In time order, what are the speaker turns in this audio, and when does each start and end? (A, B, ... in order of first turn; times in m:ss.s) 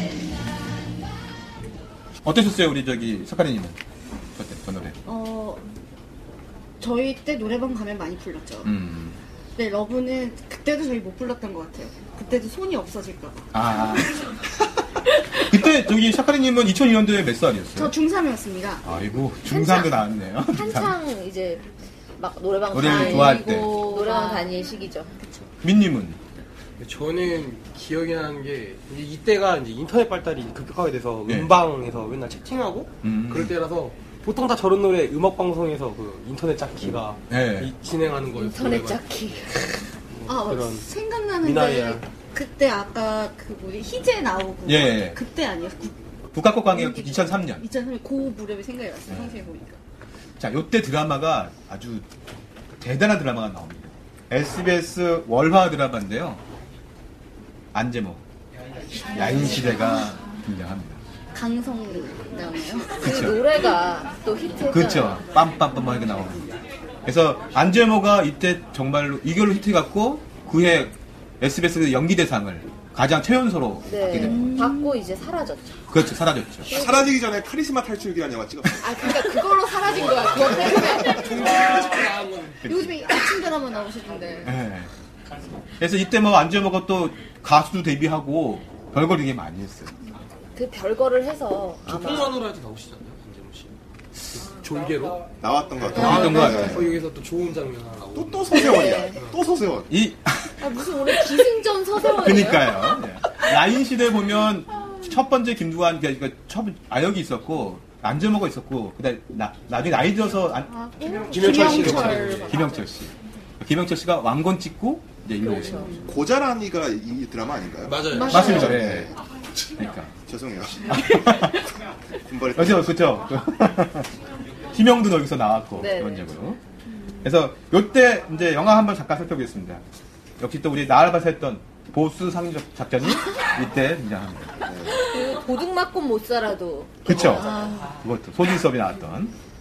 0:02.2-0:03.8 A
0:04.4-0:05.0 A
0:05.1-0:05.6 B
0:06.8-0:08.8 B
0:08.6-0:09.2 A
0:09.6-0:13.5 B
0:13.5-0:14.2 A
0:15.4-0:18.0 A
0:17.8-0:18.8 B
0:18.8-0:21.0 A
0:19.5-0:25.2 C
0:22.7-0:23.9 A
0:22.8-0:24.6 B
0:25.2-0:25.5 B
0:25.6-0:26.2 A
0:26.8-0:39.1 D
0:31.3-0:31.5 A
0:33.0-0:33.6 A
0:37.3-0:37.7 A
0:38.4-0:39.8 C
0:40.1-0:40.9 D
0:40.3-0:46.0 B
0:41.4-0:42.0 D
0:44.7-0:45.2 A
0:46.3-0:47.7 A
0:46.6-0:49.8 B
0:49.1-0:49.4 A
0:50.4-0:52.1 A
0:52.8-0:56.4 A
0:57.7-0:58.2 A
0:59.1-1:00.1 B
0:59.1-1:01.0 A
1:01.3-1:03.1 B
1:03.0-1:03.5 A
1:03.0-1:05.2 C
1:04.7-1:06.5 A
1:07.0-1:14.6 A
1:13.9-1:15.8 C
1:14.2-1:15.0 B
1:15.9-1:16.7 A
1:16.7-1:19.2 E
1:16.7-1:17.1 C
1:18.8-1:21.5 C
1:19.1-1:22.0 B
1:19.8-1:22.6 D
1:22.6-1:23.0 A
1:22.6-1:24.6 B
1:24.4-1:24.9 A
1:25.8-1:30.0 A
1:30.6-1:32.4 C
1:31.9-1:33.8 D
1:34.3-1:35.3 D
1:35.4-1:37.0 E
1:35.8-1:39.4 D
1:36.0-1:36.9 A
1:38.2-1:39.9 E
1:38.5-1:39.2 C
1:39.9-1:40.5 A
1:40.6-1:43.0 C
1:42.0-1:50.8 A
1:50.7-1:52.5 B
1:51.1-1:52.8 C
1:51.3-1:52.6 D
1:51.3-1:56.0 A
1:55.4-1:55.9 C
1:55.6-1:56.0 B
1:56.1-1:59.2 E
1:57.8-1:58.5 D
1:58.1-1:58.7 B
1:58.3-1:59.1 A
1:58.4-1:58.7 C
1:59.8-2:00.2 A
2:00.3-2:01.5 E
2:00.9-2:01.6 A
2:02.2-2:03.2 E
2:02.5-2:04.1 A
2:04.7-2:06.6 A
2:05.8-2:06.3 C
2:07.2-2:09.8 A
2:10.4-2:14.6 A
2:14.6-2:15.0 E
2:14.9-2:17.8 C
2:17.0-2:19.3 A
2:17.2-2:17.9 B